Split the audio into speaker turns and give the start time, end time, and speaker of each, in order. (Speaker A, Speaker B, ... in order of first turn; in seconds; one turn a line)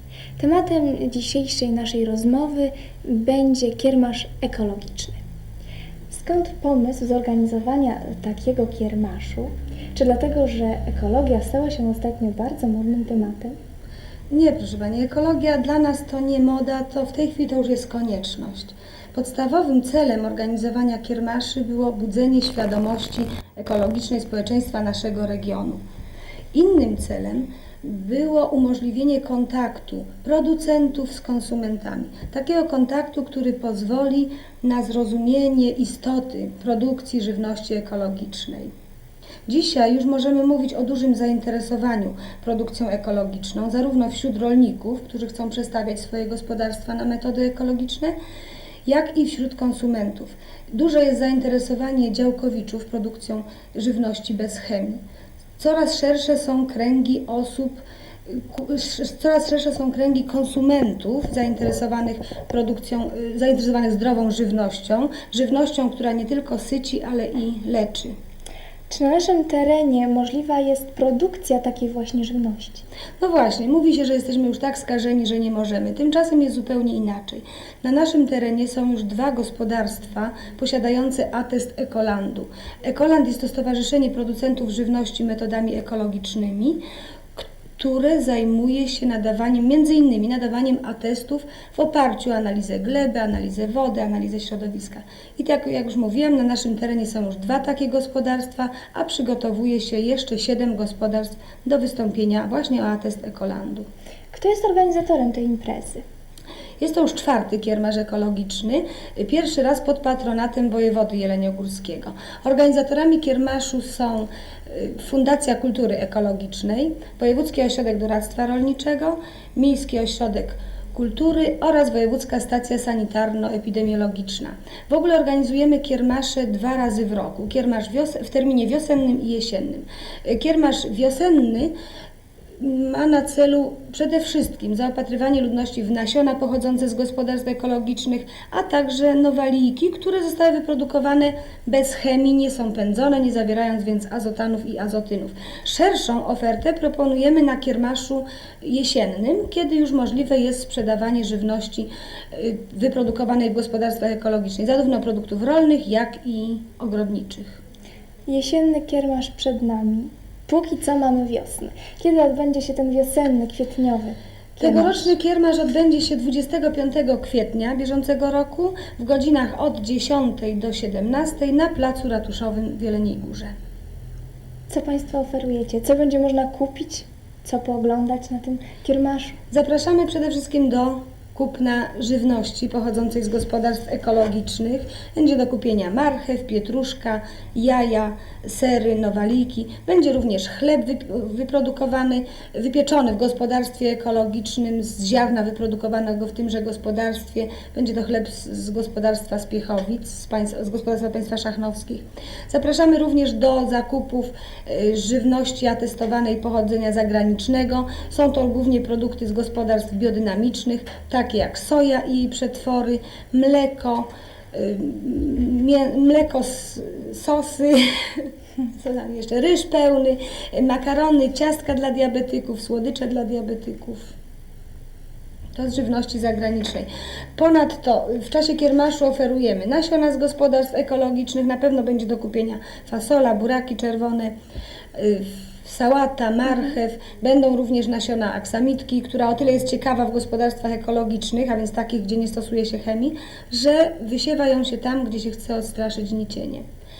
Speaker A: 0.4-5.2
Speaker A: 6.1-13.5
Speaker B: 14.3-25.8
Speaker B: 26.5-38.7
Speaker B: 39.5-48.1
Speaker B: 48.9-55.0
Speaker B: 55.6-68.1
Speaker A: 68.9-72.8
Speaker B: 73.2-86.8
Speaker B: 87.3-103.8
Speaker A: 104.3-106.0
Speaker B: 106.8-131.7
Speaker B: 132.6-157.6
Speaker A: 158.3-165.1
Speaker B: 164.6-173.5
Speaker A: 174.7-179.3
Speaker B: 179.5-224.1
Speaker B: 225.5-234.3
Speaker B: 234.9-246.6